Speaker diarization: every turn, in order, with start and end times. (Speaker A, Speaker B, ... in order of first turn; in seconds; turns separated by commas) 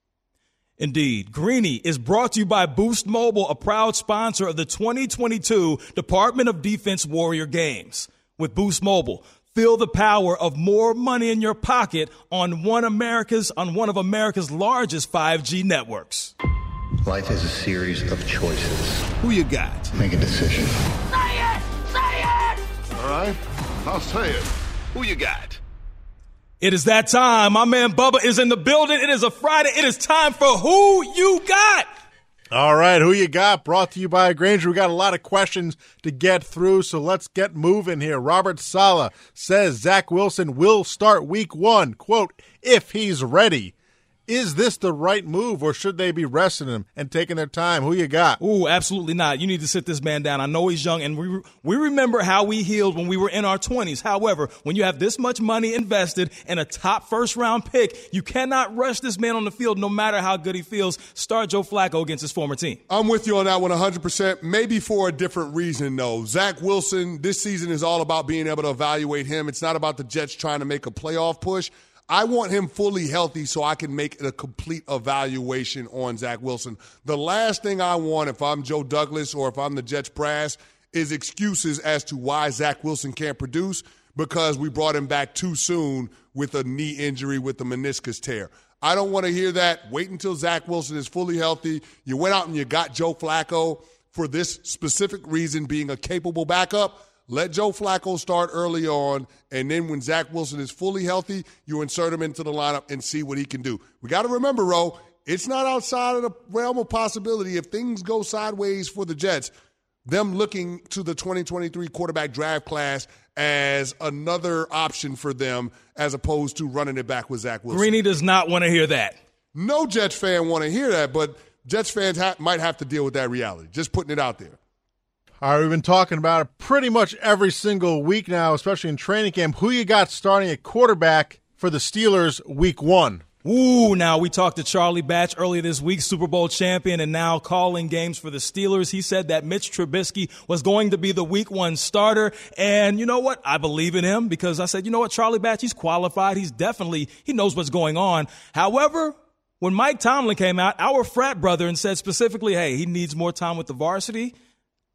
Speaker A: 0.8-16.3, Speaker B: 17.1-18.9, Speaker C: 19.1-19.9, Speaker B: 20.0-20.7, Speaker C: 21.2-22.5, Speaker C: 23.9-24.2, Speaker C: 24.9-25.6, Speaker A: 26.6-31.9, Speaker D: 32.5-43.7, Speaker D: 44.3-48.4, Speaker A: 48.4-62.8, Speaker E: 62.9-109.5, Speaker E: 110.0-118.0, Speaker A: 117.7-119.2, Speaker E: 119.5-124.5, Speaker D: 125.4-133.2, Speaker A: 133.4-154.3